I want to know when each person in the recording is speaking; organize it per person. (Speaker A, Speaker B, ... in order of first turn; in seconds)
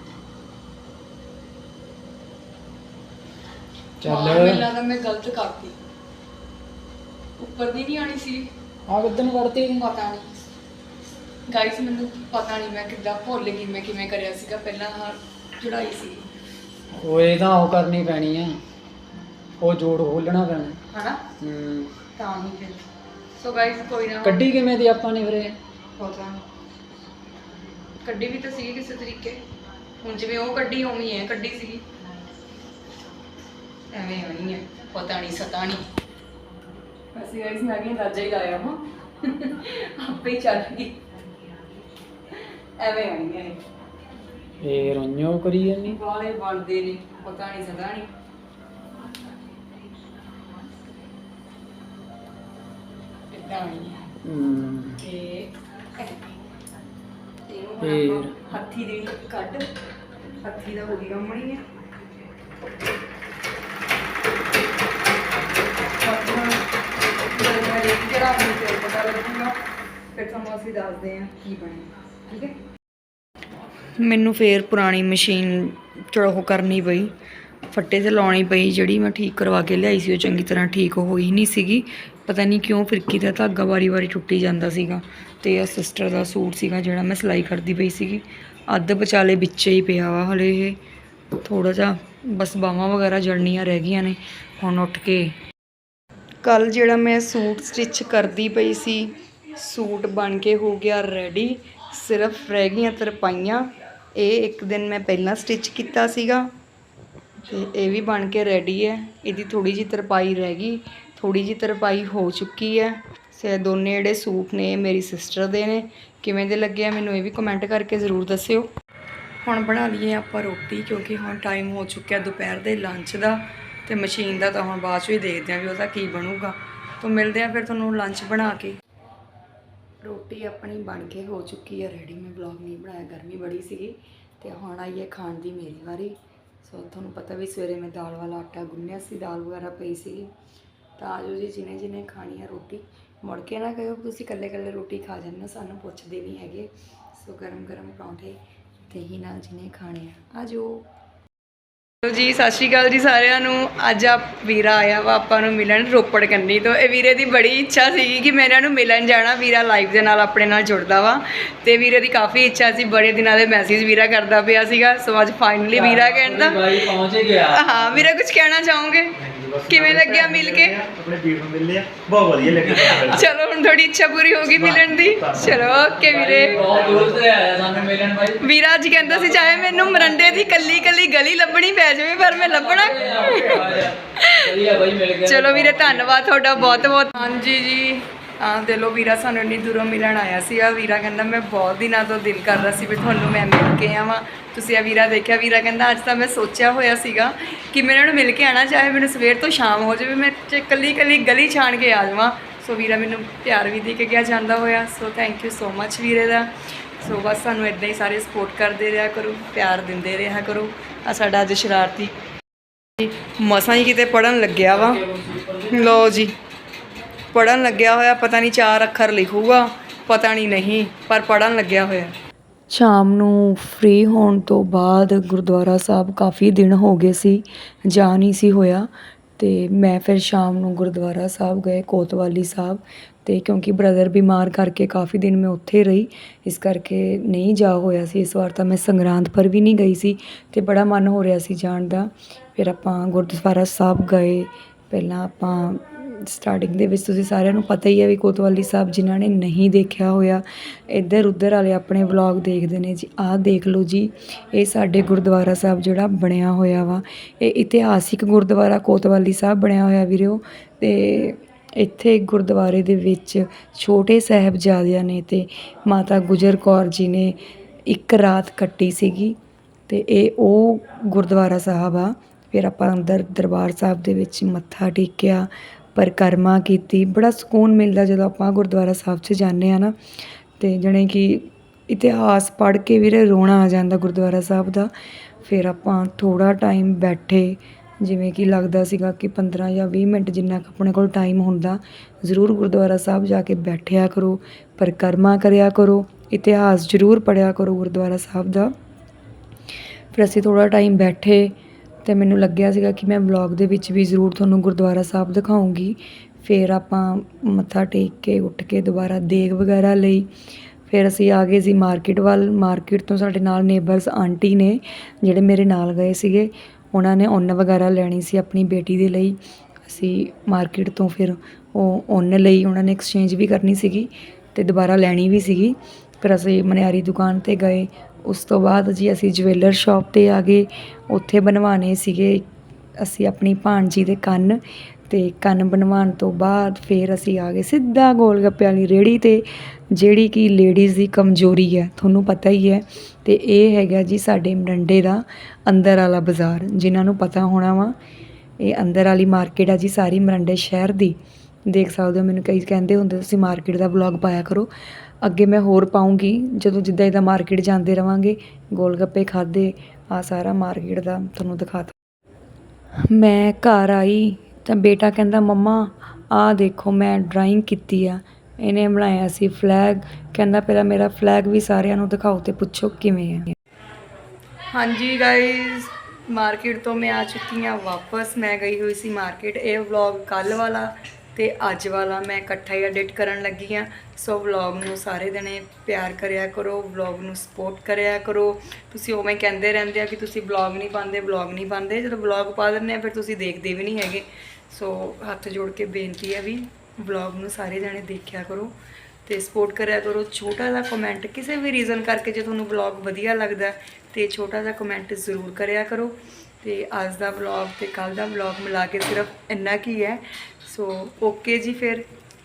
Speaker A: 4.0-4.6, 8.9-9.8, 17.0-18.6, 19.6-20.8, 21.4-21.9, 24.2-25.6, 44.6-46.0, 54.2-55.0, 57.8-58.3, 165.7-167.8, 176.0-178.4, 179.1-180.7, 182.3-186.2, 214.7-216.0
Speaker B: 4.0-5.8, 7.4-8.5, 9.7-10.2, 11.5-16.3, 20.9-21.3, 22.1-22.8, 23.4-24.5, 26.0-26.4, 28.0-29.4, 30.0-31.8, 33.9-35.8, 37.1-41.0, 42.8-43.6, 45.8-48.1, 53.3-54.1, 55.0-56.3, 57.5-59.7, 60.4-61.7, 66.0-66.6, 67.3-69.6, 70.1-72.6, 73.9-77.1, 77.7-90.8, 91.4-95.4, 96.4-106.5, 107.4-118.7, 119.4-128.8, 130.0-140.3, 141.0-150.9, 152.0-166.9, 167.4-170.8, 172.6-177.1, 178.4-184.5, 185.2-212.1, 213.0-215.0, 215.6-216.4, 217.3-222.1, 222.7-269.4, 269.9-279.9, 280.6-284.9, 285.4-298.7, 300.1-310.3, 310.9-332.5, 333.0-347.9, 348.6-354.7, 355.2-361.9, 363.0-373.5, 374.7-398.7, 399.2-412.1
Speaker C: 169.2-173.2, 174.6-175.9